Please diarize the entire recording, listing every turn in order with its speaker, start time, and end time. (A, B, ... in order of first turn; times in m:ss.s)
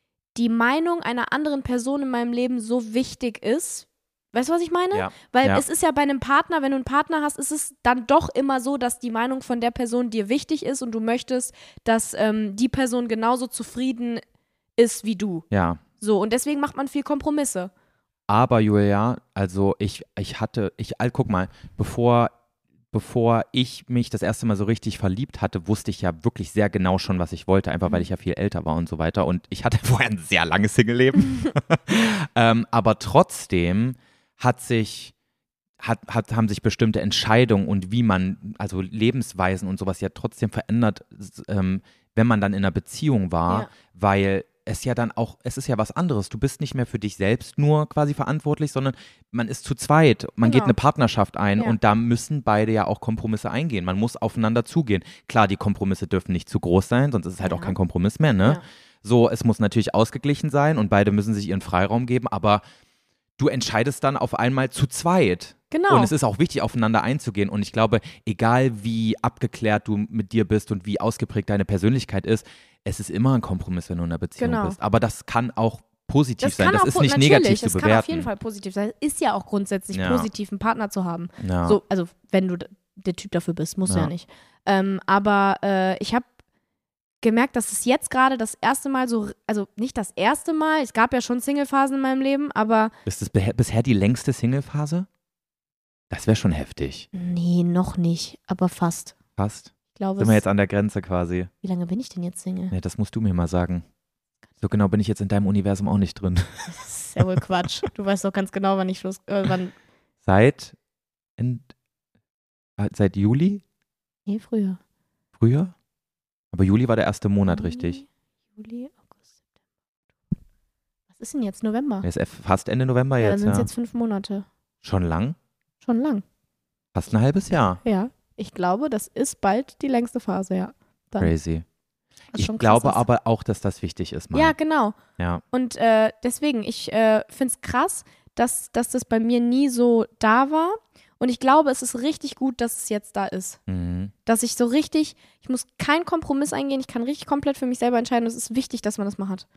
0:00.3-0:14.2 A
0:04.9-0:05.6 B
0:14.8-0:15.4 A
0:15.5-0:15.8 B
0:16.0-0:17.7 A
0:18.3-0:22.3 B
0:22.9-0:35.1 B
0:35.8-1:02.6 B
0:50.4-0:50.7 A
0:57.4-0:57.8 A
1:03.4-1:18.3 B
1:05.7-1:06.1 A
1:14.4-1:14.8 A
1:16.4-1:26.3 A
1:19.9-1:20.3 B
1:21.4-1:21.8 B
1:27.2-1:32.9 A
1:33.0-1:35.1 B
1:36.1-1:37.1 B
1:37.1-1:39.1 A
1:39.4-1:41.5 B
1:39.9-1:40.4 A
1:41.6-1:42.7 A
1:42.7-1:43.8 B
1:44.6-1:47.2 B
1:46.8-1:49.7 A
1:50.2-1:50.8 B
1:51.4-1:51.7 B
1:52.8-1:53.6 B
1:54.3-1:54.8 A
1:55.4-1:55.7 B
1:56.5-1:58.0 B
1:57.5-1:59.1 A
2:01.2-2:02.0 A
2:02.0-2:03.7 B
2:03.2-2:04.4 A
2:04.8-2:05.4 B
2:05.8-2:06.2 A
2:06.9-2:07.8 B
2:07.8-2:11.3 A
2:11.2-2:11.6 B
2:12.3-2:13.0 A
2:12.3-2:14.5 B
2:14.3-2:15.0 A
2:15.5-2:23.6 A
2:23.7-2:24.1 B
2:24.2-2:29.4 A